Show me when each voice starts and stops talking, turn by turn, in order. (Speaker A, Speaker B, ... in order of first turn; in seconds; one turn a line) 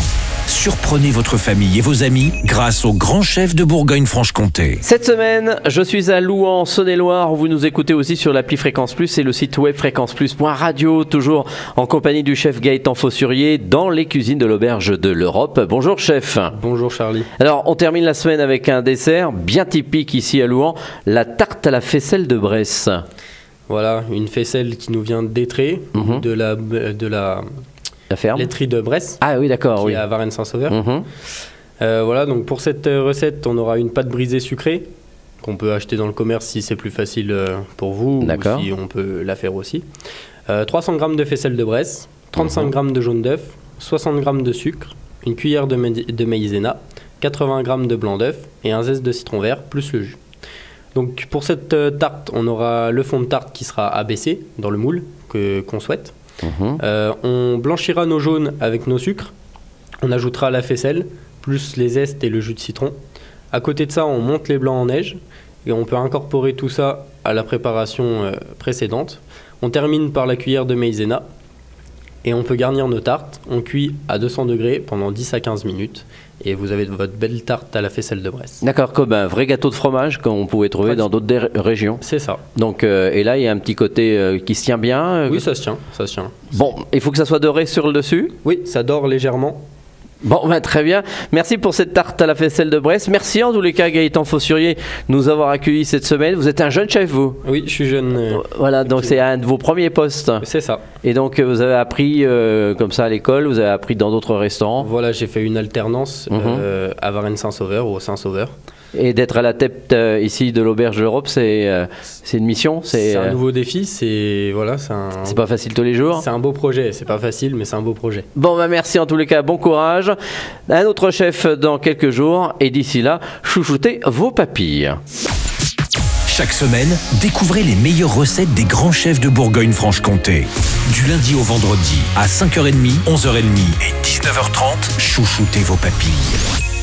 Speaker A: 0.5-4.8
Speaker B: 4.8-16.5
Speaker C: 16.5-17.3
Speaker B: 17.4-23.0
Speaker C: 23.7-27.4
Speaker B: 25.9-26.2
Speaker B: 28.1-28.5
Speaker C: 28.3-29.2
Speaker B: 29.2-30.0
Speaker C: 29.8-30.8
Speaker B: 30.7-31.0
Speaker C: 31.8-34.9
Speaker C: 35.4-39.8
Speaker B: 38.2-38.7
Speaker C: 40.5-50.2
Speaker C: 50.9-56.1
Speaker B: 56.4-56.8
Speaker C: 56.8-59.3
Speaker C: 60.0-62.9
Speaker C: 63.5-71.2
Speaker C: 72.2-78.6
Speaker B: 78.6-82.0
Speaker C: 80.8-81.1
Speaker C: 82.0-82.4
Speaker B: 82.5-85.4
Speaker C: 85.3-86.5
Speaker B: 86.5-88.3
Speaker C: 88.4-89.6
Speaker B: 90.2-97.4
Speaker C: 97.4-99.2
Speaker B: 98.3-100.4
Speaker C: 100.4-100.8
Speaker B: 101.0-104.9
Speaker C: 104.8-108.5
Speaker B: 106.3-106.6
Speaker B: 108.9-113.3
Speaker C: 112.9-115.4
Speaker B: 115.3-116.2
Speaker C: 116.1-118.3
Speaker B: 118.3-120.1
Speaker B: 120.7-125.0
Speaker A: 126.3-136.4